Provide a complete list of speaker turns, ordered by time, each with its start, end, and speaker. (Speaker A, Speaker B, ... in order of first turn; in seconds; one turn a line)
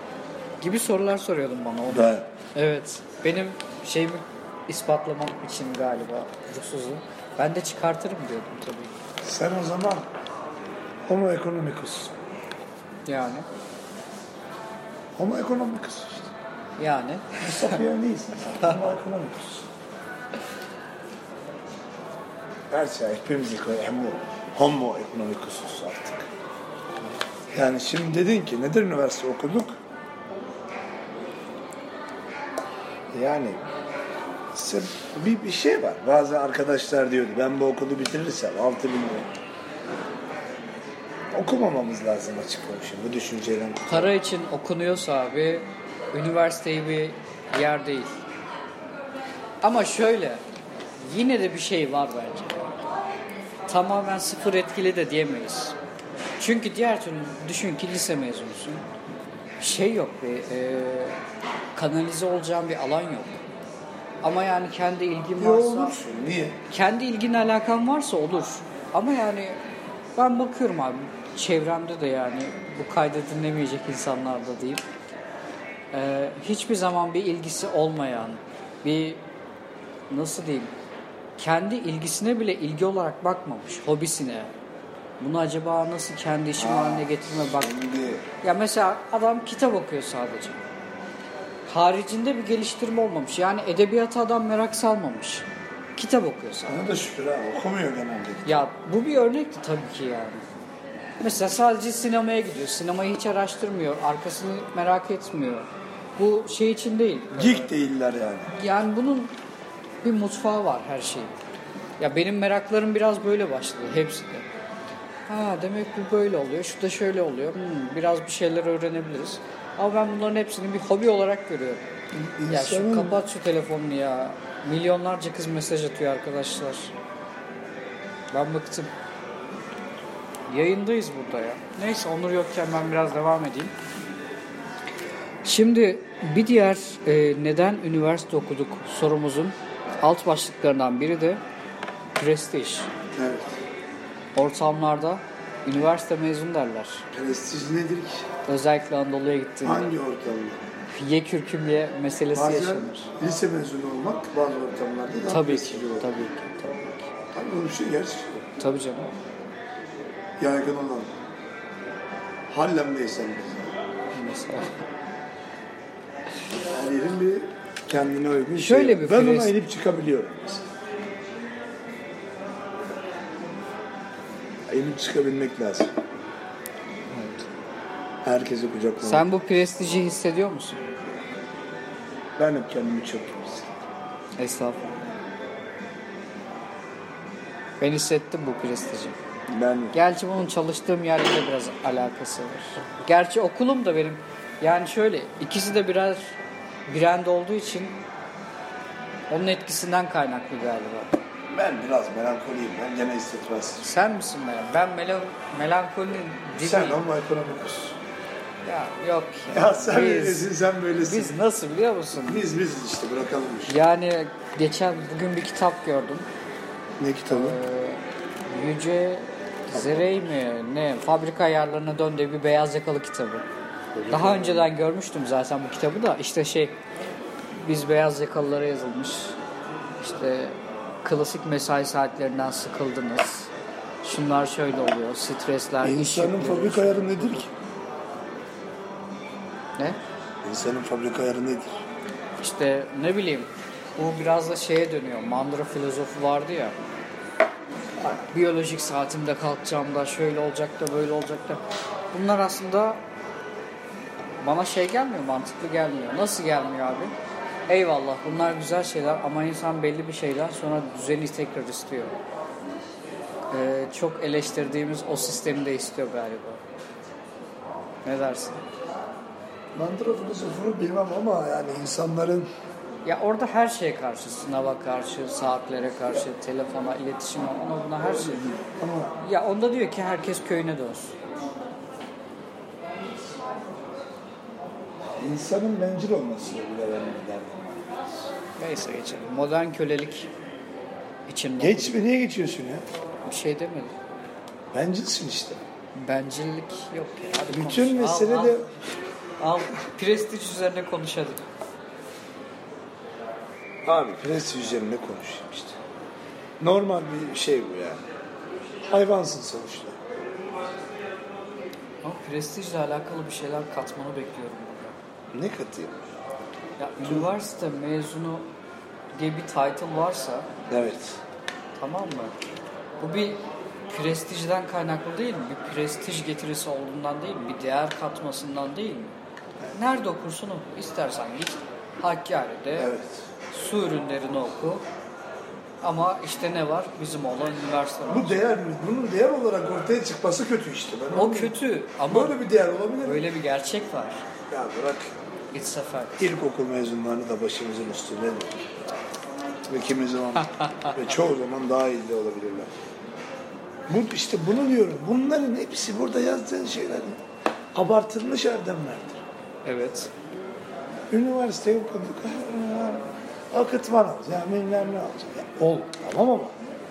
Speaker A: 0.6-9.0
Speaker B: 1.9-2.3
Speaker B: 9.2-10.1
Speaker B: 11.1-12.1
Speaker A: 13.1-13.5
Speaker B: 15.2-16.3
Speaker A: 16.8-17.8
Speaker B: 17.4-19.7
Speaker B: 22.7-26.3
Speaker B: 27.5-29.7
Speaker B: 33.1-33.6
Speaker B: 34.5-39.4
Speaker B: 41.3-44.1
Speaker A: 43.9-48.2
Speaker A: 49.6-50.4
Speaker A: 51.0-52.7
Speaker A: 53.7-55.8
Speaker A: 56.4-58.8
Speaker A: 59.6-61.2
Speaker A: 61.8-63.4
Speaker A: 64.2-66.0
Speaker B: 65.4-66.6
Speaker A: 66.7-69.6
Speaker A: 70.2-74.8
Speaker A: 75.9-79.2
Speaker A: 80.1-80.7
Speaker A: 81.4-84.5
Speaker A: 85.2-87.7
Speaker B: 86.6-88.3
Speaker A: 88.4-90.6
Speaker A: 91.7-96.8
Speaker B: 96.7-98.6
Speaker A: 98.5-100.4
Speaker A: 101.2-107.7
Speaker B: 107.3-108.5
Speaker A: 108.6-109.3
Speaker A: 110.0-111.3
Speaker A: 112.0-114.5
Speaker A: 115.3-121.9
Speaker B: 122.2-123.2
Speaker A: 122.5-126.9
Speaker A: 128.3-128.9
Speaker A: 130.5-133.7
Speaker A: 135.4-141.4
Speaker A: 142.2-142.9
Speaker B: 143.1-143.6
Speaker A: 144.3-147.1
Speaker B: 147.1-148.3
Speaker A: 148.5-149.9
Speaker B: 149.6-150.6
Speaker A: 150.9-153.1
Speaker B: 152.3-156.1
Speaker A: 155.3-157.1
Speaker B: 157.3-158.5
Speaker A: 158.6-159.1
Speaker B: 160.4-161.1
Speaker B: 162.5-163.8
Speaker A: 164.1-164.7
Speaker B: 166.7-170.7
Speaker A: 168.6-169.5
Speaker B: 174.7-175.9
Speaker A: 177.1-177.5
Speaker B: 178.2-179.3
Speaker A: 179.0-180.8
Speaker B: 182.4-183.8
Speaker A: 184.4-185.0
Speaker A: 187.8-189.2
Speaker B: 189.5-190.0
Speaker A: 189.9-196.3
Speaker A: 196.9-198.0
Speaker A: 199.3-201.2
Speaker B: 201.5-203.9
Speaker A: 203.8-207.0
Speaker B: 206.6-208.0
Speaker A: 208.7-212.4
Speaker B: 209.5-211.4
Speaker B: 212.2-213.8
Speaker A: 213.7-216.3
Speaker B: 217.0-217.6
Speaker A: 217.3-223.4
Speaker B: 219.7-220.1
Speaker B: 223.9-224.7
Speaker A: 224.1-226.8
Speaker A: 227.6-229.4
Speaker A: 230.0-233.5
Speaker A: 234.0-237.5
Speaker B: 235.8-237.5
Speaker B: 240.4-241.8
Speaker A: 242.4-246.8
Speaker B: 248.0-248.2
Speaker A: 248.3-251.6
Speaker A: 252.1-253.0
Speaker A: 254.4-257.1
Speaker A: 257.7-262.2
Speaker A: 263.5-266.6
Speaker A: 268.1-268.6
Speaker B: 269.7-272.5
Speaker A: 273.1-278.6
Speaker B: 278.0-279.2
Speaker A: 279.2-281.2
Speaker B: 285.2-288.3
Speaker A: 288.6-290.3
Speaker A: 291.3-292.0
Speaker B: 291.6-292.8
Speaker A: 293.3-293.9
Speaker B: 294.7-295.6
Speaker A: 295.9-298.7
Speaker B: 297.5-298.7
Speaker A: 299.4-301.4
Speaker B: 303.9-305.8
Speaker B: 306.6-308.0
Speaker B: 308.9-310.0
Speaker A: 312.0-315.0
Speaker B: 315.3-316.0
Speaker A: 316.8-318.5
Speaker B: 317.0-317.3
Speaker A: 319.1-320.5
Speaker B: 320.7-321.2
Speaker A: 321.8-322.4
Speaker A: 323.0-329.1
Speaker A: 329.7-332.9
Speaker B: 332.8-333.2
Speaker A: 333.5-334.8
Speaker A: 335.8-338.5
Speaker B: 338.1-341.6
Speaker A: 341.1-342.4
Speaker B: 342.1-343.2
Speaker A: 343.0-344.2
Speaker B: 344.5-345.1
Speaker A: 345.5-346.2
Speaker B: 346.2-348.6
Speaker B: 349.7-352.7
Speaker A: 350.4-351.0
Speaker B: 353.9-357.2
Speaker B: 357.7-359.2
Speaker A: 359.6-360.1
Speaker B: 361.1-366.6